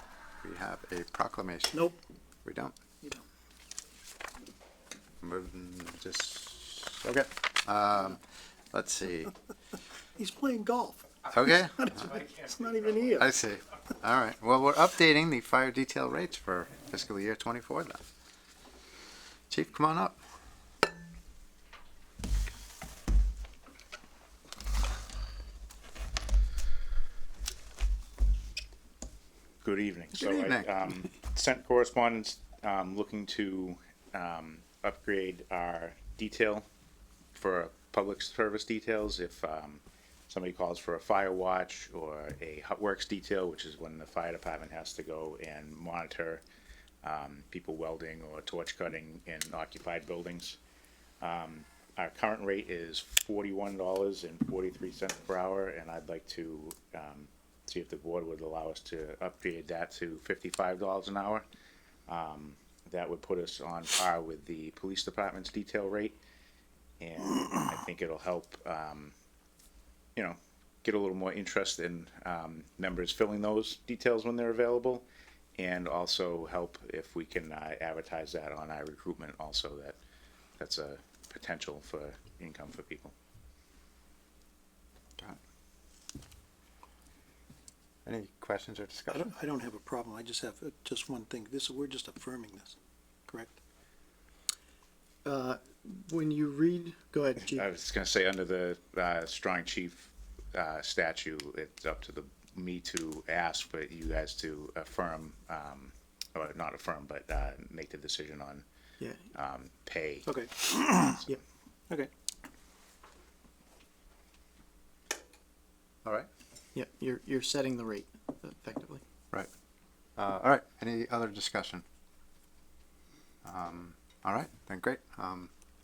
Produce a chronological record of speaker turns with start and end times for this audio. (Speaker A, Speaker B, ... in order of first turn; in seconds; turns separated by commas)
Speaker A: 0.4-1.9, Speaker B: 1.7-2.0, Speaker A: 2.5-2.8, Speaker A: 5.2-8.2, Speaker A: 8.7-9.3, Speaker B: 10.2-11.0, Speaker A: 11.3-11.9, Speaker B: 11.7-13.3, Speaker A: 13.2-18.0, Speaker A: 19.5-20.2, Speaker C: 29.6-36.7, Speaker A: 30.1-30.7, Speaker C: 37.4-46.4, Speaker C: 47.0-50.6, Speaker C: 51.2-61.5, Speaker C: 62.1-66.2, Speaker C: 67.0-69.1, Speaker C: 70.2-75.1, Speaker C: 75.6-80.0, Speaker C: 80.6-83.1, Speaker A: 88.0-89.3, Speaker B: 89.1-92.8, Speaker B: 93.3-93.6, Speaker D: 95.2-97.7, Speaker C: 97.5-108.7, Speaker C: 109.3-110.3, Speaker B: 110.3-111.2, Speaker D: 116.8-119.0, Speaker A: 120.2-121.8, Speaker A: 123.4-125.5